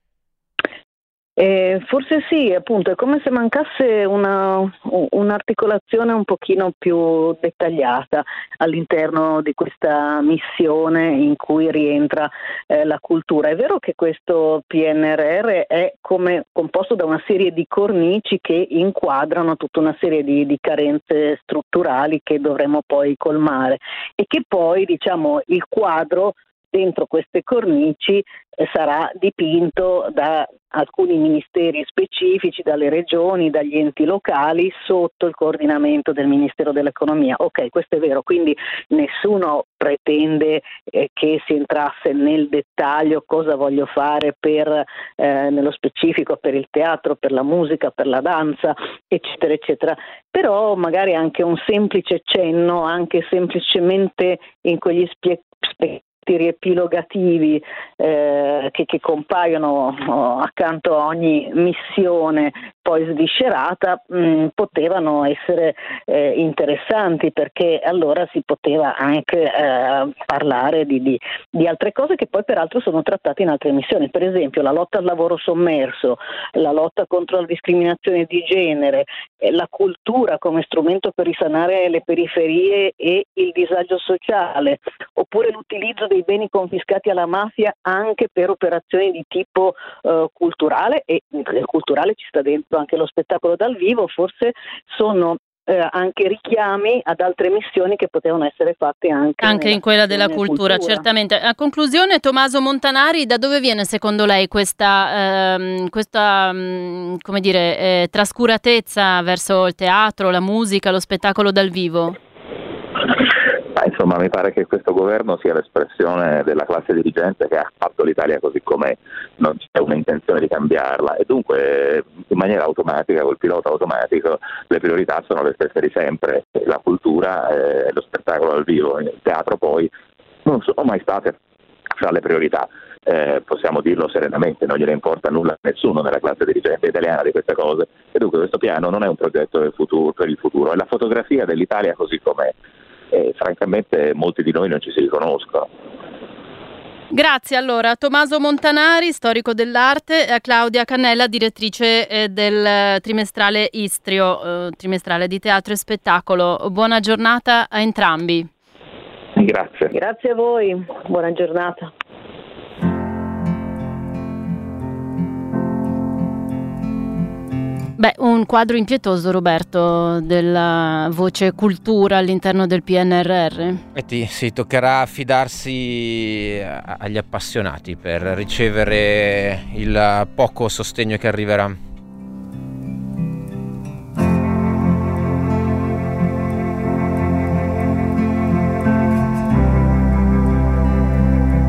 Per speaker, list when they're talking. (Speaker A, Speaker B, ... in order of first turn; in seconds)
Speaker A: 1.4-101.1, 159.9-161.9
Speaker B: 99.4-112.2, 147.1-158.5, 168.0-173.8
Speaker C: 113.8-129.9, 130.4-131.4, 132.0-142.6, 143.1-145.7, 159.4-159.9
Speaker D: 173.9-181.8